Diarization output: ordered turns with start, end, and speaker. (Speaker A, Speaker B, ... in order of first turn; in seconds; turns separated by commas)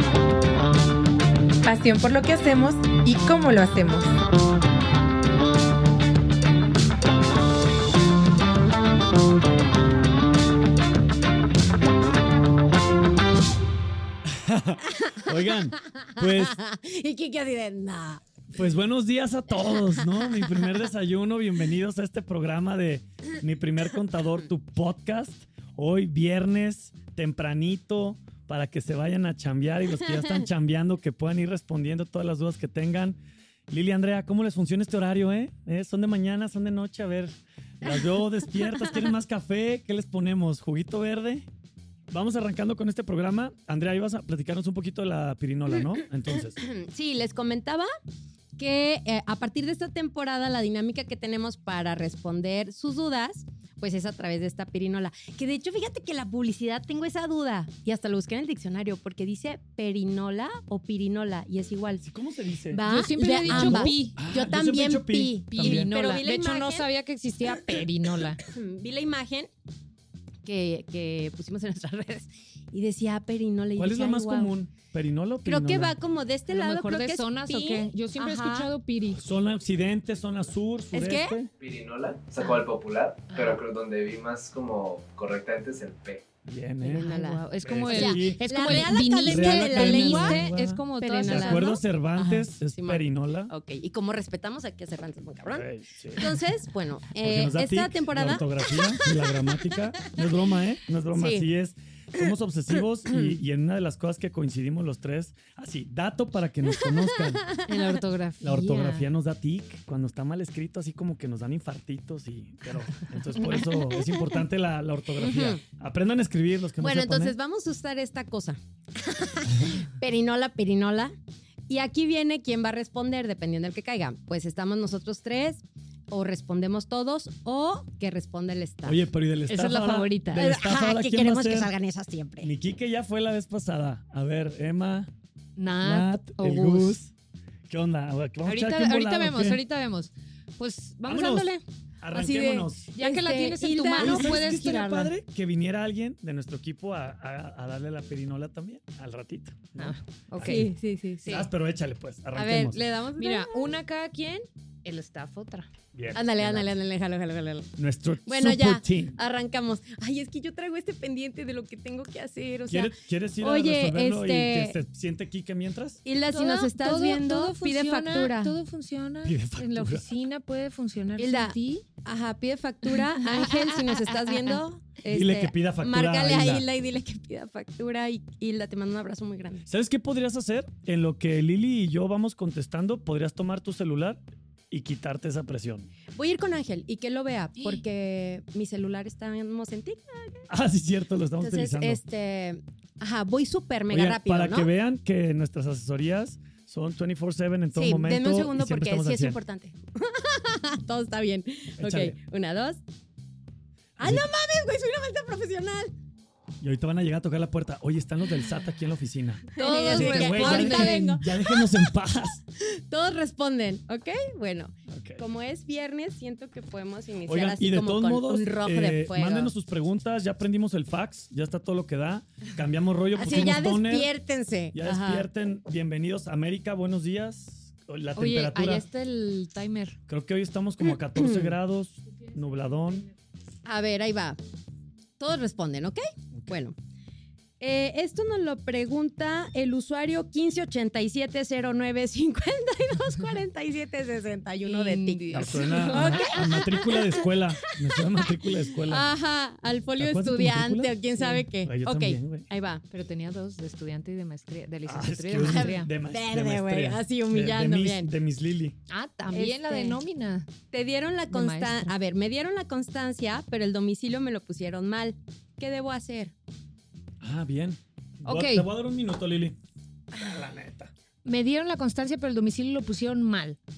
Speaker A: 1.6-4.1, Speaker B: 14.2-16.6, Speaker C: 14.9-18.2, Speaker B: 18.5-33.2, Speaker C: 20.4-20.7, Speaker B: 33.7-41.5, Speaker B: 42.1-46.6, Speaker C: 46.6-47.9, Speaker C: 48.6-62.1, Speaker B: 62.0-62.8, Speaker C: 62.7-66.9, Speaker D: 62.9-64.2, Speaker B: 63.4-65.9, Speaker D: 65.5-68.4, Speaker C: 68.4-69.5, Speaker C: 70.4-74.5, Speaker B: 73.8-76.0, Speaker C: 75.4-78.7, Speaker D: 76.5-79.2, Speaker B: 79.1-81.5, Speaker C: 80.9-81.4, Speaker E: 81.6-86.2, Speaker B: 86.5-87.1, Speaker D: 86.8-91.7, Speaker C: 86.9-90.4, Speaker B: 87.6-93.5, Speaker C: 91.0-99.3, Speaker B: 95.5-96.3, Speaker B: 97.2-107.5, Speaker C: 100.0-100.2, Speaker C: 101.2-101.5, Speaker C: 106.8-108.0, Speaker D: 107.7-109.1, Speaker B: 108.4-117.4, Speaker C: 115.2-115.6, Speaker C: 116.8-121.1, Speaker C: 121.7-129.0, Speaker B: 128.9-131.7, Speaker D: 129.5-130.4, Speaker C: 130.3-132.5, Speaker B: 132.4-135.1, Speaker D: 135.6-137.0, Speaker B: 135.8-137.1, Speaker B: 137.7-139.6, Speaker D: 138.4-141.6, Speaker B: 141.1-141.5, Speaker B: 142.0-142.9, Speaker C: 142.1-144.4, Speaker D: 142.9-145.1, Speaker B: 144.0-150.7, Speaker D: 149.8-150.7, Speaker C: 150.4-151.4, Speaker B: 151.3-152.8, Speaker C: 152.3-153.8, Speaker D: 153.2-155.7, Speaker B: 155.9-156.7, Speaker C: 156.1-157.7, Speaker B: 157.8-159.2, Speaker C: 158.3-164.8, Speaker B: 162.7-166.0, Speaker C: 166.1-168.6, Speaker D: 166.3-171.8, Speaker B: 169.2-170.1, Speaker C: 171.2-179.7, Speaker D: 173.2-174.5, Speaker B: 175.1-176.7, Speaker B: 179.7-185.9, Speaker C: 186.2-190.5, Speaker B: 190.5-192.0, Speaker C: 191.4-194.7, Speaker B: 193.9-199.4, Speaker C: 197.7-202.8, Speaker B: 201.8-202.2, Speaker B: 204.0-204.3, Speaker C: 204.0-205.9, Speaker B: 206.6-212.4, Speaker C: 209.6-211.9, Speaker D: 209.6-211.2, Speaker C: 212.6-219.5, Speaker B: 214.9-215.2, Speaker B: 217.3-224.1, Speaker C: 223.2-225.3, Speaker B: 224.7-228.8, Speaker D: 228.2-230.0, Speaker B: 230.1-233.1, Speaker C: 231.2-231.6, Speaker C: 233.7-234.4, Speaker C: 235.2-236.8, Speaker C: 237.6-247.2, Speaker D: 244.7-246.4, Speaker B: 245.3-249.1, Speaker C: 247.9-252.8, Speaker B: 250.0-250.9, Speaker B: 251.6-252.5, Speaker D: 252.9-255.9, Speaker B: 254.9-258.8, Speaker C: 255.3-258.1, Speaker D: 258.9-260.5, Speaker C: 259.3-260.0, Speaker C: 260.7-266.3, Speaker D: 261.3-261.9, Speaker B: 267.2-269.6, Speaker D: 268.2-268.7, Speaker B: 270.1-270.9, Speaker D: 271.2-273.6